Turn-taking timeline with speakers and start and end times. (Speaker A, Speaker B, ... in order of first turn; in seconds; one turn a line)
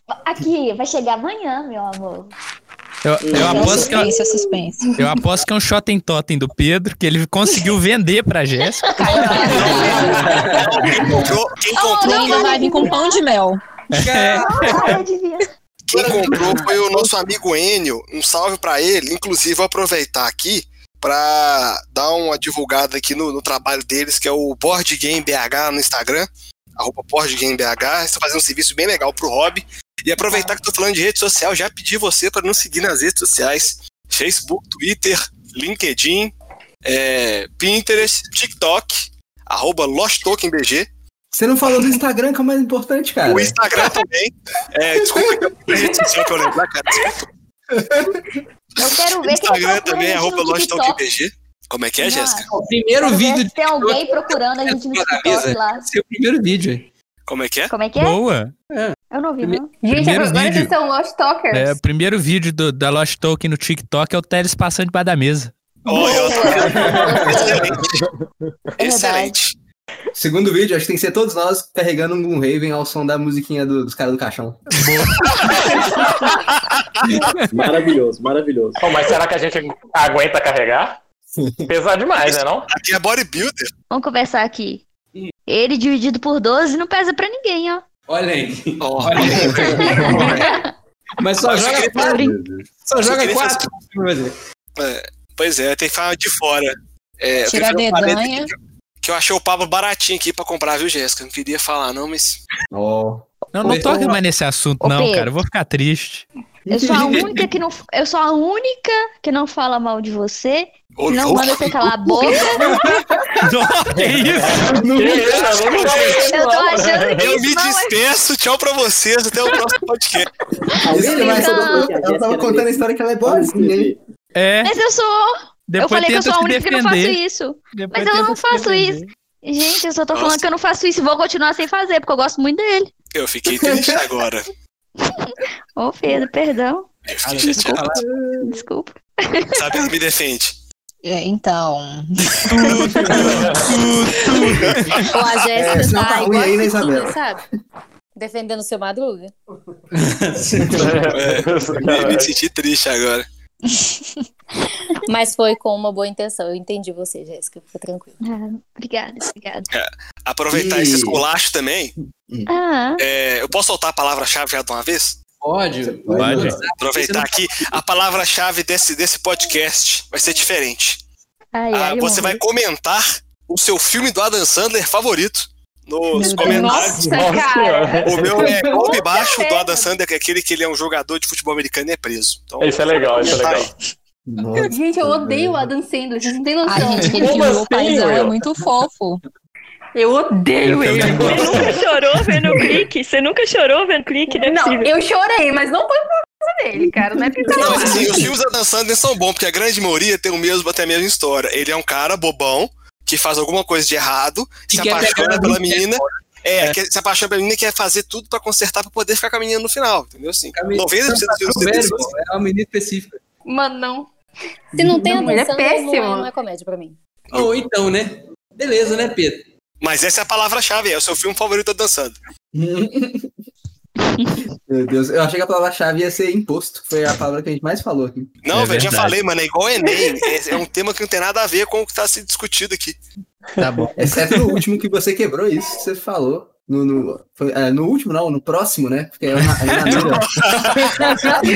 Speaker A: 0.2-2.3
Speaker B: 3.0-4.1
Speaker C: 3.2-3.9
Speaker A: 3.3-4.1
Speaker D: 3.7-4.9
Speaker B: 5.0-9.9
Speaker A: 8.7-10.4
Speaker D: 9.0-9.9
Speaker E: 9.4-12.7
Speaker F: 9.7-10.3
Speaker G: 10.2-10.6
Speaker A: 11.8-13.2
Speaker D: 12.0-13.6
Speaker H: 14.0-15.0
Speaker B: 14.0-14.8
Speaker A: 14.4-15.5
Speaker E: 15.9-36.3
Speaker H: 15.9-17.1
Speaker E: 36.8-40.9
Speaker G: 41.3-43.5
Speaker E: 43.3-47.2
Speaker G: 45.0-45.5
Speaker G: 47.7-48.2
Speaker A: 48.8-51.0
Speaker E: 48.8-52.5
Speaker A: 52.0-55.8
Speaker H: 52.5-56.9
Speaker E: 57.3-57.7
Speaker A: 57.7-58.2
Speaker B: 58.0-58.5
Speaker H: 58.7-59.0
Speaker A: 59.1-59.8
Speaker I: 59.8-61.8
Speaker B: 59.9-60.7
Speaker B: 61.5-65.5
Speaker A: 65.9-67.6
Speaker E: 65.9-68.0
Speaker G: 66.5-67.5
Speaker E: 68.8-69.5
Speaker A: 68.8-69.4
Speaker G: 70.1-74.7
Speaker B: 74.8-75.5
Speaker C: 77.5-78.8
Speaker F: 78.8-81.0
Speaker G: 81.4-81.7
Speaker F: 81.7-82.7
Speaker E: 82.2-83.7
Speaker A: 83.9-84.8
Speaker A: 85.5-87.8
Speaker H: 88.1-90.3
Speaker E: 88.8-90.5
Speaker G: 89.2-90.5
Speaker A: 89.8-90.7
Speaker H: 91.2-92.3
Speaker E: 91.4-92.2
Speaker G: 92.0-92.7
Speaker A: 92.0-92.3
Speaker H: 92.8-94.3
Speaker E: 93.0-93.7
Speaker E: 94.8-102.4
Speaker D: 97.5-98.5
Speaker G: 102.7-104.1
Speaker B: 103.5-106.3
Speaker A: 103.7-104.2
Speaker A: 104.8-105.4
Speaker G: 106.7-107.5
Speaker A: 106.7-113.0
Speaker E: 111.0-112.4
Speaker B: 113.4-114.7
Speaker F: 114.5-117.3
Speaker G: 114.5-116.1
Speaker A: 115.5-118.0
Speaker E: 117.1-120.3
Speaker C: 120.8-124.0
Speaker G: 120.9-123.9
Speaker A: 120.9-121.9
Speaker B: 124.4-124.7
Speaker A: 124.6-132.9
Speaker B: 125.7-127.2
Speaker B: 127.9-128.6
Speaker E: 130.1-130.5
Speaker E: 133.1-134.5
Speaker G: 133.5-134.1
Speaker A: 135.1-136.9
Speaker E: 137.1-138.0
Speaker H: 137.2-138.1
Speaker G: 137.9-138.6
Speaker A: 138.4-139.8
Speaker E: 139.6-140.5
Speaker D: 141.0-142.4
Speaker E: 142.5-145.1
Speaker F: 143.2-143.7
Speaker J: 145.1-147.4
Speaker G: 145.6-147.2
Speaker J: 148.1-149.3
Speaker H: 149.9-150.9
Speaker G: 150.6-151.0
Speaker F: 150.8-152.3
Speaker E: 151.1-153.3
Speaker J: 155.1-158.2
Speaker A: 158.2-159.7
Speaker E: 159.7-161.9
Speaker G: 160.5-161.2
Speaker A: 162.5-163.0
Speaker E: 163.0-165.2
Speaker H: 165.4-167.4
Speaker G: 165.8-166.6
Speaker B: 166.1-166.6
Speaker E: 166.8-171.0
Speaker A: 171.6-172.4
Speaker E: 171.7-177.5
Speaker I: 176.1-179.9
Speaker D: 176.2-177.0
Speaker F: 177.0-178.2
Speaker E: 178.0-183.7
Speaker F: 182.6-183.7
Speaker G: 184.3-185.7
Speaker I: 184.7-187.5
Speaker D: 186.6-189.2
Speaker F: 187.2-188.3
Speaker I: 189.9-192.9
Speaker B: 190.8-191.2
Speaker K: 191.2-194.9
Speaker I: 194.3-198.3
Speaker E: 197.5-212.1
Speaker H: 204.7-206.1
Speaker H: 210.5-213.2
Speaker I: 213.4-214.1
Speaker I: 214.7-216.3
Speaker J: 214.7-216.9
Speaker H: 217.3-219.5
Speaker E: 219.8-222.1
Speaker G: 222.5-223.3
Speaker G: 224.7-228.3
Speaker E: 228.4-233.0
Speaker B: 228.5-229.2
Speaker H: 233.6-234.6
Speaker G: 234.0-240.3
Speaker H: 239.4-240.1
Speaker E: 239.9-241.2